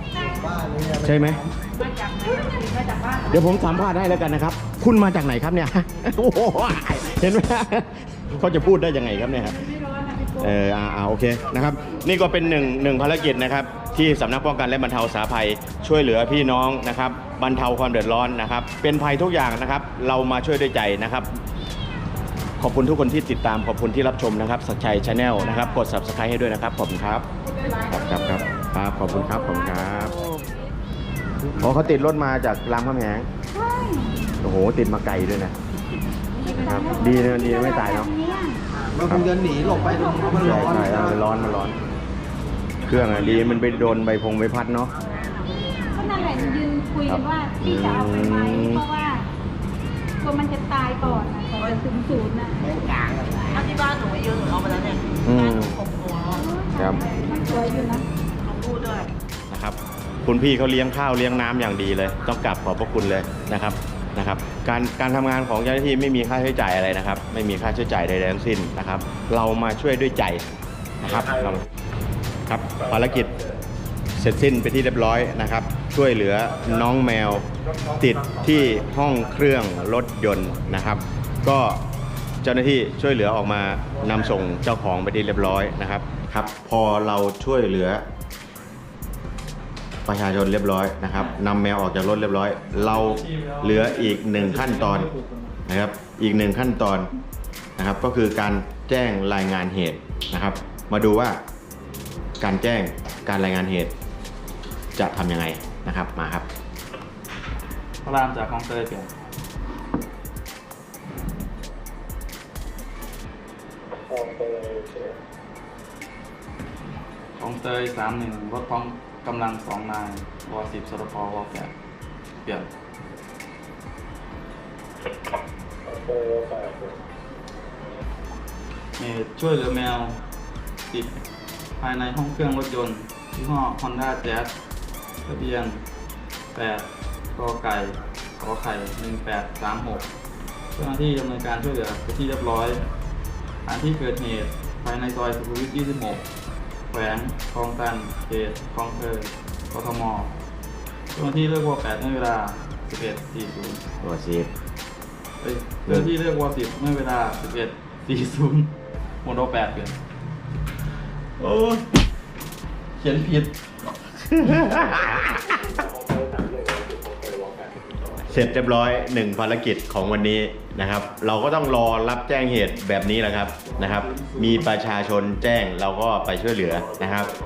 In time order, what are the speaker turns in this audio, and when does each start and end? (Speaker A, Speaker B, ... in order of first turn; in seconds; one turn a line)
Speaker A: 0.2-0.5
Speaker B: 0.2-1.6
Speaker C: 1.0-1.4
Speaker A: 1.7-3.7
Speaker C: 3.3-9.7
Speaker A: 8.9-10.6
Speaker C: 10.4-21.4
Speaker C: 22.6-27.3
Speaker A: 27.6-27.9
Speaker C: 27.9-30.2
Speaker A: 29.5-30.5
Speaker C: 31.6-33.3
Speaker A: 33.5-34.4
Speaker C: 34.4-35.5
Speaker A: 36.4-38.6
Speaker C: 36.6-38.1
Speaker B: 38.9-41.4
Speaker C: 39.0-39.4
Speaker A: 39.5-40.9
Speaker C: 40.3-41.8
Speaker C: 42.9-44.9
Speaker D: 42.9-43.9
Speaker A: 45.9-49.3
Speaker C: 47.1-48.8
Speaker A: 50.2-52.8
Speaker E: 53.5-56.5
Speaker C: 55.2-55.8
Speaker A: 56.3-58.1
Speaker C: 56.8-57.0
Speaker E: 58.5-59.1
Speaker C: 59.5-70.5
Speaker C: 71.0-71.7
Speaker F: 71.1-71.6
Speaker C: 72.5-73.3
Speaker F: 72.8-73.6
Speaker C: 74.2-77.5
Speaker F: 77.5-79.7
Speaker C: 78.0-81.8
Speaker C: 82.4-88.0
Speaker C: 90.1-95.1
Speaker D: 92.7-95.5
Speaker C: 95.7-97.1
Speaker C: 97.8-101.4
Speaker C: 102.4-103.9
Speaker C: 105.0-106.5
Speaker D: 108.0-109.1
Speaker F: 114.0-115.2
Speaker D: 117.4-121.7
Speaker D: 122.4-122.7
Speaker F: 125.9-127.0
Speaker D: 129.0-130.2
Speaker D: 130.9-131.2
Speaker D: 131.8-134.5
Speaker D: 135.3-135.8
Speaker D: 136.5-140.1
Speaker D: 140.8-142.9
Speaker D: 143.7-146.2
Speaker D: 146.9-150.3
Speaker D: 151.1-153.8
Speaker C: 154.0-154.5
Speaker D: 155.4-160.0
Speaker C: 155.9-156.1
Speaker D: 161.4-161.8
Speaker D: 163.0-163.7
Speaker C: 164.4-165.6
Speaker F: 165.5-168.2
Speaker C: 168.2-177.3
Speaker D: 173.7-174.4